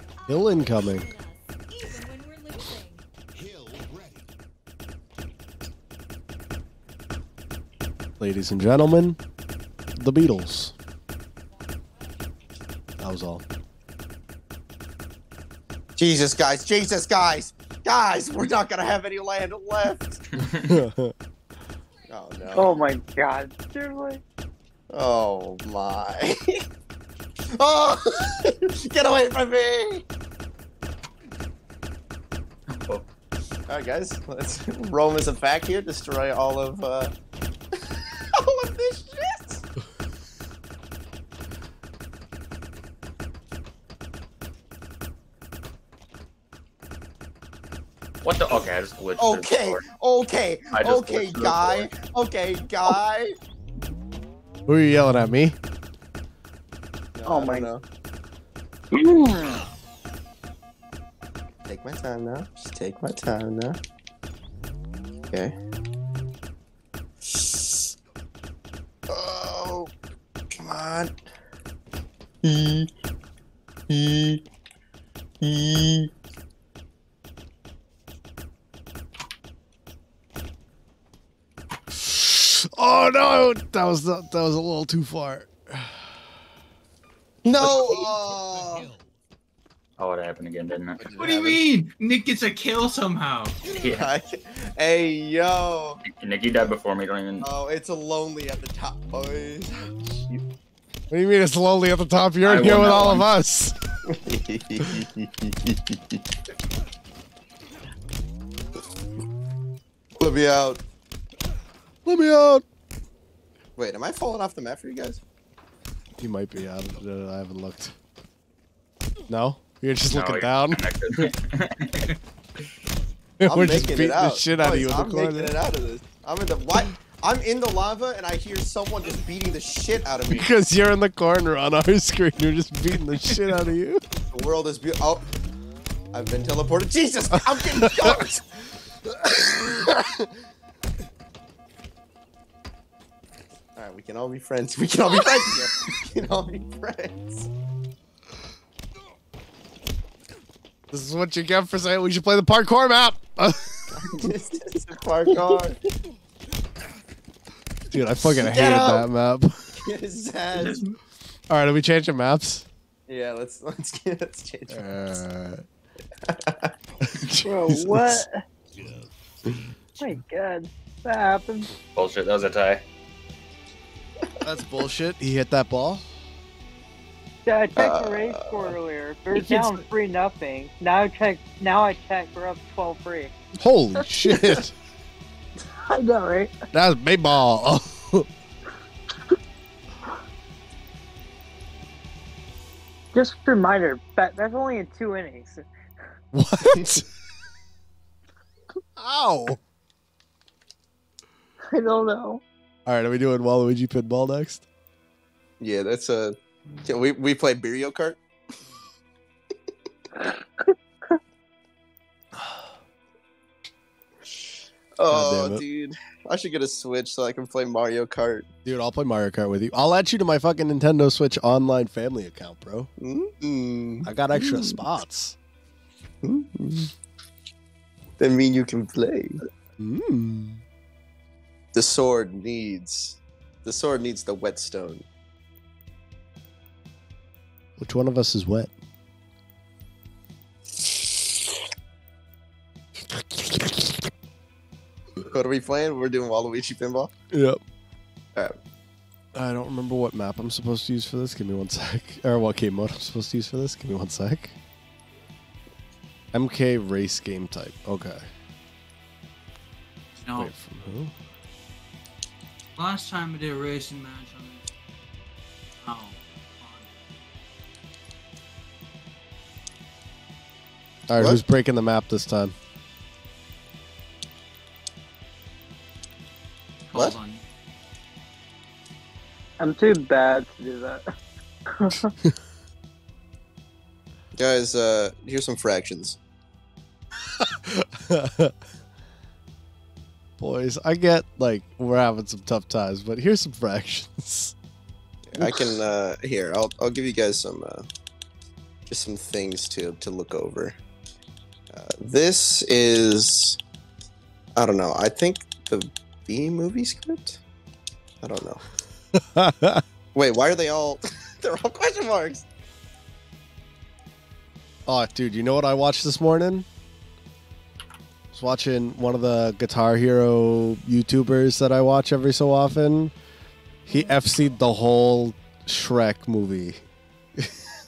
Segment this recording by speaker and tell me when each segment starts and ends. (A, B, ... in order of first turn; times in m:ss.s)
0:00.2-0:03.0 A
0:00.3-0:01.1 B
0:03.3-0:04.3 C
0:08.2-0:09.2 B
0:10.0-0:10.8 B
0:13.0-0:13.4 B
0:16.0-0:20.2 D
0:20.4-0:20.8 E
0:20.6-0:21.1 B
0:22.1-0:22.8 D
0:22.5-0:24.2 F
0:24.9-0:26.6 D
0:27.5-0:30.0 D
0:32.7-0:33.1 E
0:33.7-0:37.1 D
0:37.9-0:39.6 D
0:48.2-0:49.8 E
0:49.2-0:53.4 D
0:50.7-0:51.9 E
0:54.7-0:55.6 B
0:57.2-0:57.8 D
0:57.3-0:57.7 F
0:58.9-0:59.7 F
1:01.7-1:03.8 D
1:07.3-1:07.8 D
1:09.1-1:09.9 D
1:10.5-1:11.1 D
1:12.4-1:12.9 D
1:13.9-1:14.4 D
1:15.4-1:16.1 D
1:21.9-1:26.1 B
1:27.4-1:28.9 D
1:27.6-1:29.2 C
1:30.0-1:31.0 E
1:31.0-1:31.6 D
1:31.2-1:33.6 G
1:33.7-1:34.1 E
1:33.9-1:36.0 D
1:36.0-1:37.5 E
1:37.4-1:40.4 D
1:41.1-1:43.7 B
1:42.4-1:43.3 E
1:44.1-1:46.2 D
1:50.2-1:50.8 D
1:52.0-1:52.6 B
1:53.8-1:55.2 D
1:56.2-1:58.0 B
1:59.3-2:00.8 B
2:00.1-2:02.0 E
2:03.4-2:05.5 B
2:03.4-2:10.5 D
2:10.3-2:14.0 B
2:14.3-2:15.2 D
2:16.1-2:18.4 D
2:17.4-2:18.3 B
2:19.7-2:20.1 B
2:23.8-2:27.5 D
2:30.9-2:33.9 B
2:33.9-2:35.8 D
2:37.9-2:39.8 B
2:38.2-2:39.1 D
2:39.8-2:40.8 D
2:41.5-2:42.7 B
2:43.1-2:45.2 D
2:44.7-2:45.6 B
2:46.3-2:46.7 D
2:47.0-2:48.2 B
2:47.4-2:48.4 F
2:48.7-2:49.7 C
2:50.0-2:51.7 F
2:52.0-2:52.8 E
2:54.4-2:56.0 B
2:57.4-3:03.3 F
2:57.8-2:58.8 D
2:59.3-2:59.8 G
3:03.6-3:04.7 B
3:04.3-3:04.6 F
3:05.7-3:06.6 F
3:06.7-3:08.3 B
3:13.1-3:15.6 F
3:16.3-3:17.1 B
3:19.0-3:19.6 B
3:21.7-3:22.4 F
3:22.9-3:24.6 B
3:25.6-3:28.2 D
3:30.2-3:30.7 F
3:32.4-3:32.7 B
3:35.0-3:38.5 D
3:35.1-3:35.6 B
3:38.6-3:42.9 B
3:43.0-3:44.8 D
3:44.0-3:45.4 B
3:46.2-3:46.9 D
3:48.2-3:49.4 D
3:49.8-3:50.6 B
3:51.7-3:55.1 D
3:57.8-3:58.7 B
4:03.1-4:04.0 B
4:05.3-4:07.1 D
4:07.3-4:07.6 B
4:09.3-4:14.6 B
4:16.3-4:18.2 B
4:20.2-4:20.5 G
4:20.4-4:21.1 B
4:22.8-4:24.7 G
4:25.8-4:26.9 G
4:31.1-4:32.5 B
4:31.2-4:31.4 D
4:36.9-4:37.4 G
4:39.6-4:41.0 F
4:41.7-4:42.1 F
4:44.4-4:46.2 D
4:47.4-4:48.5 B
4:50.4-4:54.5 B
4:55.3-4:57.9 D
4:55.4-4:55.8 B
4:58.9-5:00.8 D
5:01.7-5:03.6 D
5:04.6-5:07.4 D
5:08.2-5:08.6 D
5:09.2-5:09.8 B
5:10.2-5:12.4 D
5:14.9-5:16.7 B
5:18.3-5:23.1 B
5:23.9-5:26.8 B